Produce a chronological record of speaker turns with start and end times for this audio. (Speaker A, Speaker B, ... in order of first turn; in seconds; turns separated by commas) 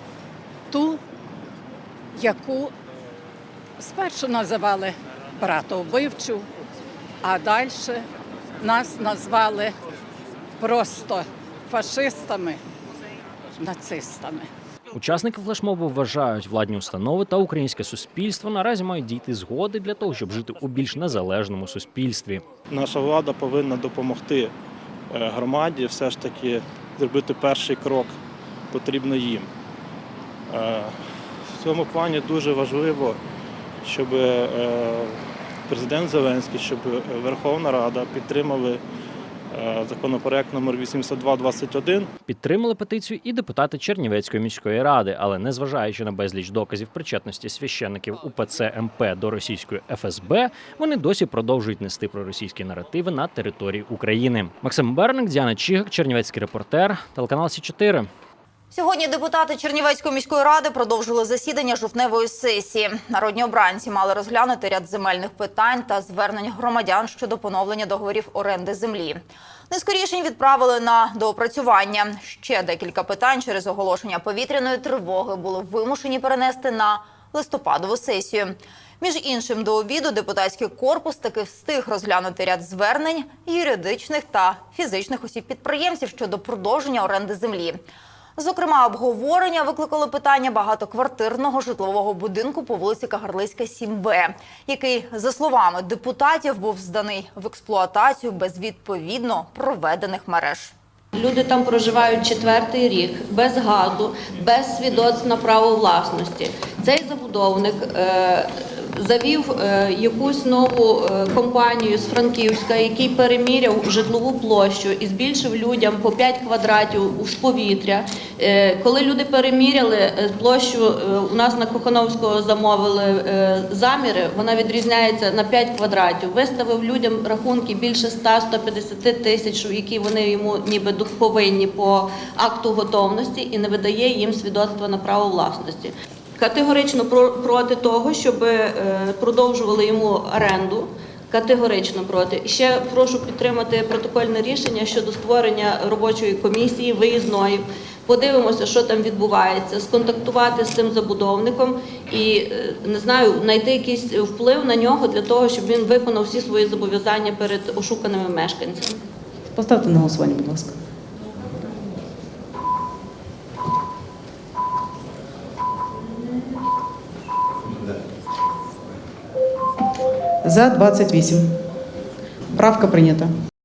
Speaker A: 0.7-1.0, Speaker A: 2.1-2.7, Speaker A: 3.8-6.5, Speaker A: 7.2-8.1, Speaker A: 8.6-9.8, Speaker A: 10.6-12.6, Speaker A: 13.6-14.5, Speaker B: 14.9-22.4, Speaker C: 22.7-24.5, Speaker C: 25.1-28.1, Speaker C: 28.7-29.5, Speaker C: 30.5-31.0, Speaker C: 31.5-33.2, Speaker C: 33.8-38.8, Speaker C: 39.5-42.1, Speaker B: 42.3-58.1, Speaker D: 58.7-87.8, Speaker D: 88.4-100.7, Speaker E: 101.1-159.0, Speaker F: 159.6-160.7, Speaker F: 170.4-171.4, Speaker F: 172.6-173.3